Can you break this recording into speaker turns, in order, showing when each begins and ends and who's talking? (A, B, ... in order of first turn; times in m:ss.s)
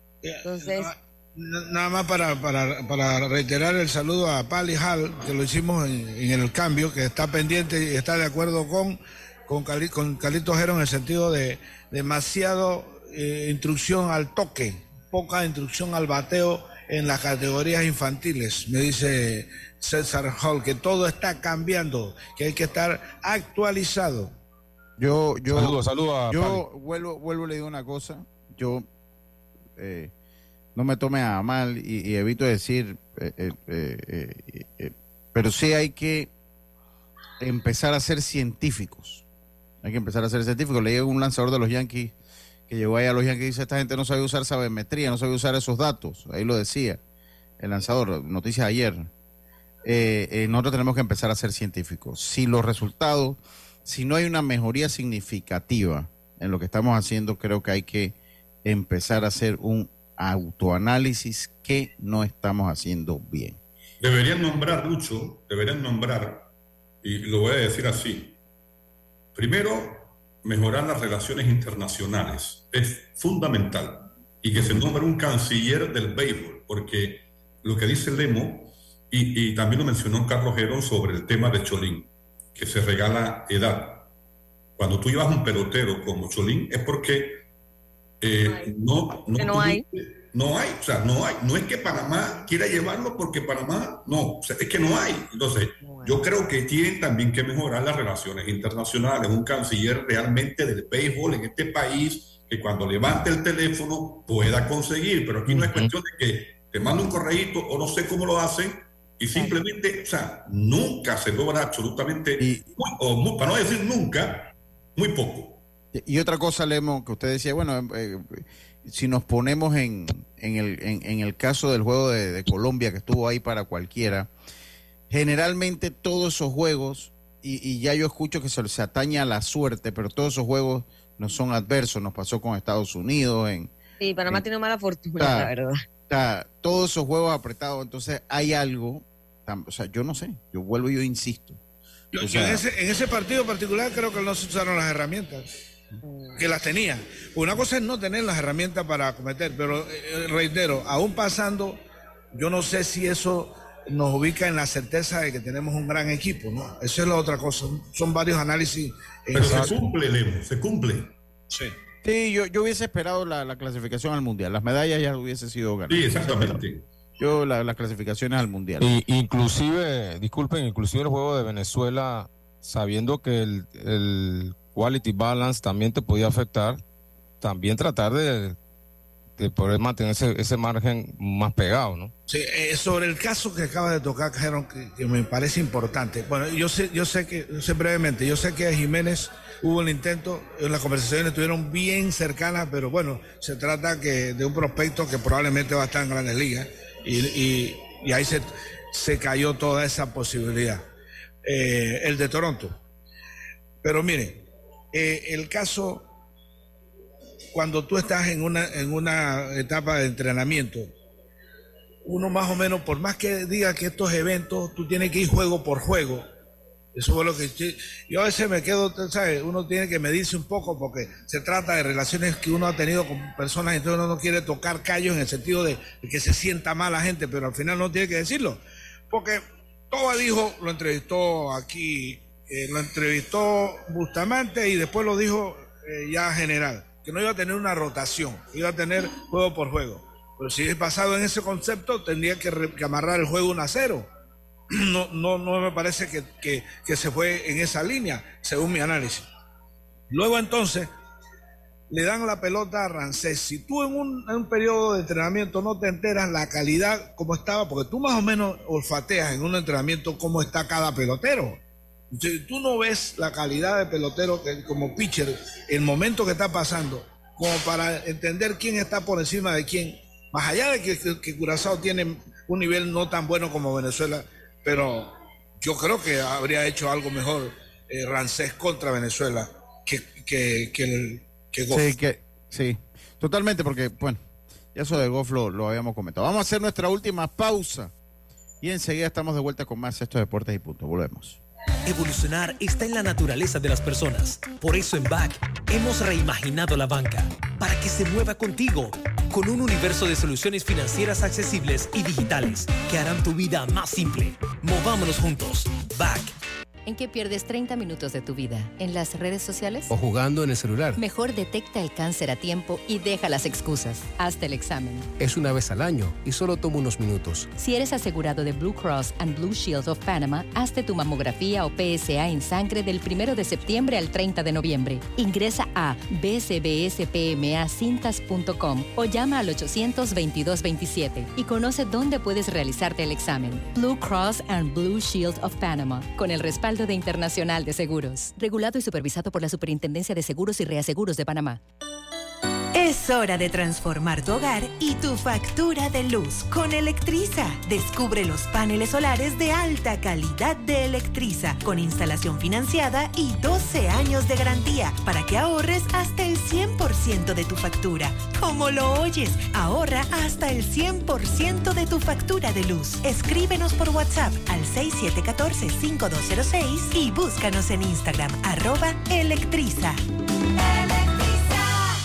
0:00.2-0:24.3 A
0:00.4-0:00.9 B
0:25.0-0:25.8 C
0:25.5-0:26.6 D
0:26.3-0:28.9 C
0:29.8-0:30.1 C
0:30.7-0:36.3 C
0:37.4-0:39.2 C
0:39.8-0:42.1 C
0:42.7-0:47.0 C
0:47.6-0:49.1 C
0:49.8-1:03.6 C
1:04.0-1:06.5 E
1:07.0-1:08.4 E
1:09.3-1:24.1 E
1:24.8-1:27.4 E
1:28.2-1:55.6 E
1:28.4-1:28.7 B
1:29.4-1:29.8 B
1:35.8-1:36.2 B
1:45.5-1:45.9 D
1:52.4-1:52.6 C
1:55.9-2:04.3 C
2:05.1-2:13.7 C
2:14.0-2:15.8 B
2:15.2-2:15.5 C
2:16.1-2:21.6 C
2:22.1-2:25.5 A
2:22.2-2:22.6 C
2:26.0-2:26.4 B
2:26.4-2:31.8 A
2:32.3-2:39.8 A
2:39.3-2:41.1 E
2:39.4-2:39.7 D
2:42.0-2:46.6 C
2:45.9-2:46.8 E
2:47.2-2:48.9 C
2:48.8-2:56.8 D
2:57.4-2:58.6 D
2:59.4-3:02.1 D
3:02.3-3:20.8 A
3:21.4-3:22.7 A
3:23.8-3:26.1 A
3:27.5-3:30.9 A
3:32.0-3:36.3 A
3:36.9-4:04.1 A
4:04.7-4:09.3 A
4:10.1-4:10.9 A
4:11.9-4:21.6 A
4:22.1-4:41.9 A
4:41.7-4:44.2 C
4:44.7-4:47.9 C
4:48.6-4:51.4 C
4:51.9-5:06.3 F
5:06.9-5:09.9 G
5:09.9-5:11.0 H
5:11.0-5:15.1 G
5:15.2-5:17.5 H
5:17.5-5:41.6 G
5:42.7-6:10.0 I